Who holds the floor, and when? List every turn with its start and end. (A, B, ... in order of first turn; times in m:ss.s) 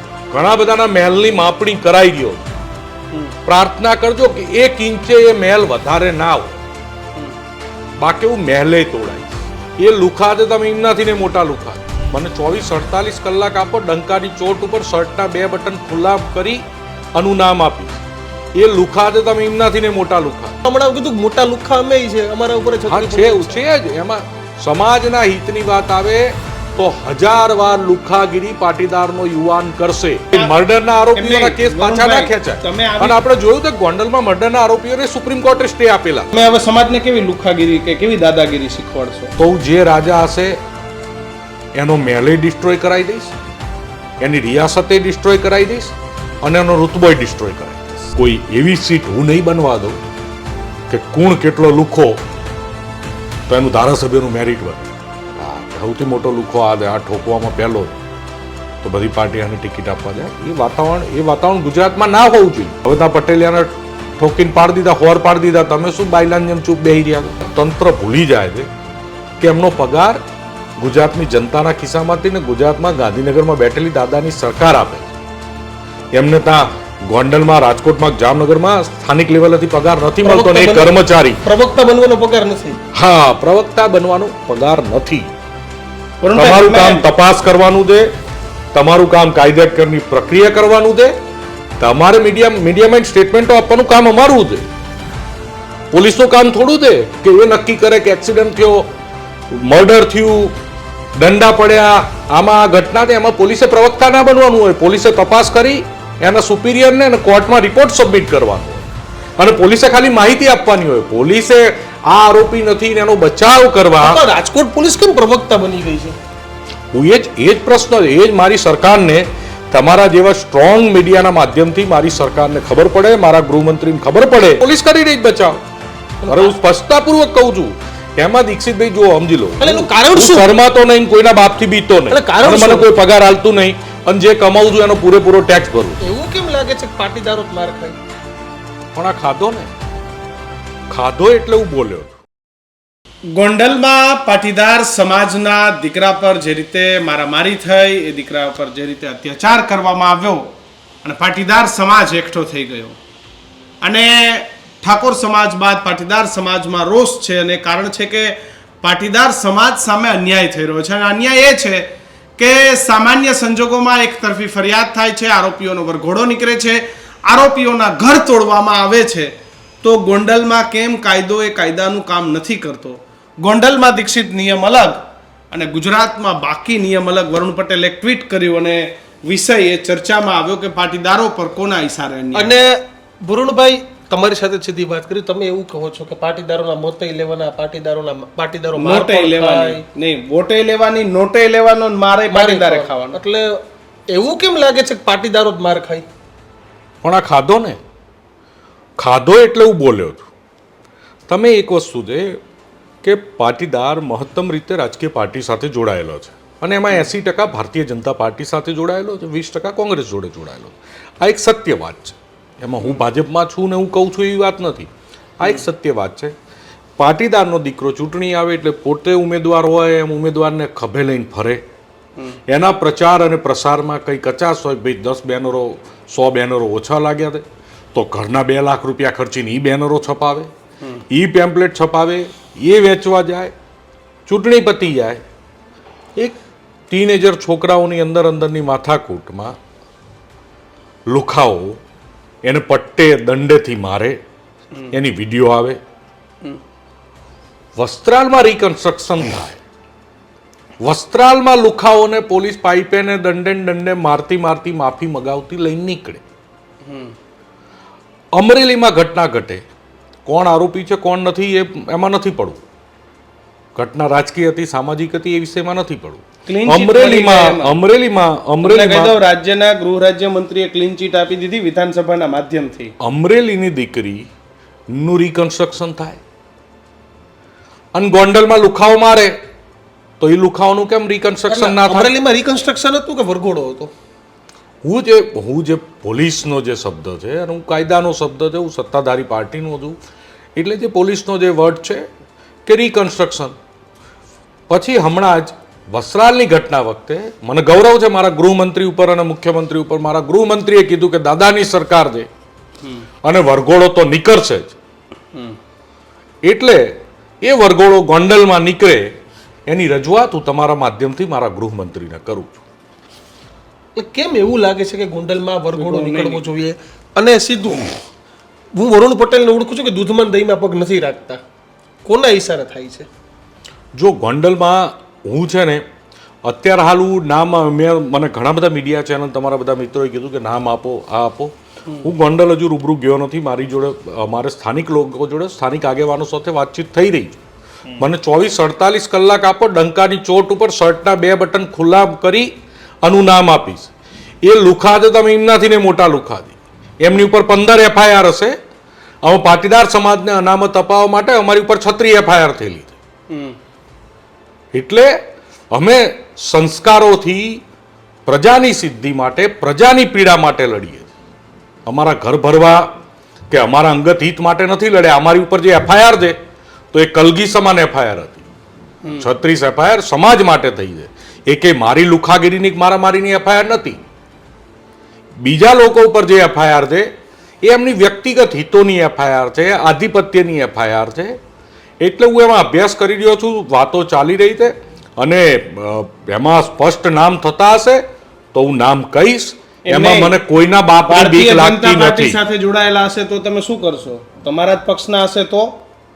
0:00.3-0:02.5 A
0:03.4-0:06.6 A
0:08.0-0:16.6 A
0:17.2-0:20.6 A
0:20.6-0:23.6 B
0:22.9-0:36.3 A
0:31.2-0:33.2 C
0:36.3-0:39.4 C
0:39.4-0:40.6 A
0:41.8-0:43.3 A
0:44.2-0:50.0 A
0:50.9-0:52.2 A
0:53.5-0:57.9 A
0:58.8-1:08.7 A
1:09.4-1:10.3 A
1:10.8-1:15.1 A
1:16.1-1:21.4 A
1:20.2-1:22.8 B
1:22.9-1:25.3 A
1:26.2-1:27.1 C
1:26.4-1:28.1 A
1:28.7-1:31.1 A
1:31.8-1:34.7 A
1:35.9-1:38.9 A
1:39.5-1:40.5 A
1:41.2-1:48.8 A
1:49.4-1:54.2 A
1:54.0-1:56.2 B
1:56.9-2:05.6 A
2:06.2-2:06.6 B
2:06.3-2:16.0 A
2:09.6-2:10.5 B
2:12.1-2:12.9 B
2:16.0-2:18.0 B
2:19.0-2:19.7 A
2:20.9-2:22.2 A
2:23.3-2:30.5 C
2:31.0-2:33.0 C
2:33.8-3:02.5 C
3:02.4-3:09.8 B
3:08.8-3:13.2 C
3:12.3-3:16.1 B
3:17.0-3:17.8 A
3:19.0-3:20.2 A
3:21.3-3:22.4 A
3:23.0-3:36.3 A
3:37.0-3:41.6 A
3:42.5-3:50.5 A
3:51.1-3:53.5 A
3:54.3-3:55.2 A
3:56.9-3:59.6 A
4:01.1-4:01.8 A
4:02.4-4:04.2 A
4:04.9-4:05.8 A
4:07.8-4:09.6 A
4:10.8-4:16.2 A
4:16.8-4:17.1 C
4:18.4-4:19.7 A
4:20.3-4:22.6 A
4:23.8-4:29.2 A
4:26.5-4:27.7 C
4:28.6-4:32.9 C
4:33.0-4:34.3 A
4:34.9-4:36.2 A
4:38.0-4:39.4 A
4:40.2-4:42.1 A
4:41.5-4:43.9 B
4:44.8-4:50.0 A
4:50.6-4:52.1 A
4:52.7-4:53.6 A
4:54.7-5:02.3 A
5:03.2-5:04.8 A
5:06.4-5:09.1 A
5:09.7-5:12.6 A
5:14.0-5:17.9 B
5:15.8-5:16.4 C
5:18.7-5:21.4 B
5:22.0-5:23.1 B
5:24.0-5:25.8 A
5:26.4-5:37.4 A
5:38.0-5:42.5 A
5:43.0-5:43.9 A
5:44.4-5:48.6 A
5:49.2-5:53.0 A
5:53.3-5:53.6 C
5:54.7-5:55.2 A
5:55.7-5:57.6 A
5:58.3-6:01.1 A
6:01.9-6:03.0 A
6:03.5-6:06.4 A
6:06.9-6:08.4 A
6:09.2-6:14.0 A
6:15.4-6:17.1 A
6:17.6-6:21.4 A
6:22.0-6:28.0 A
6:28.5-6:32.4 A
6:29.9-6:30.4 C
6:31.1-6:35.8 C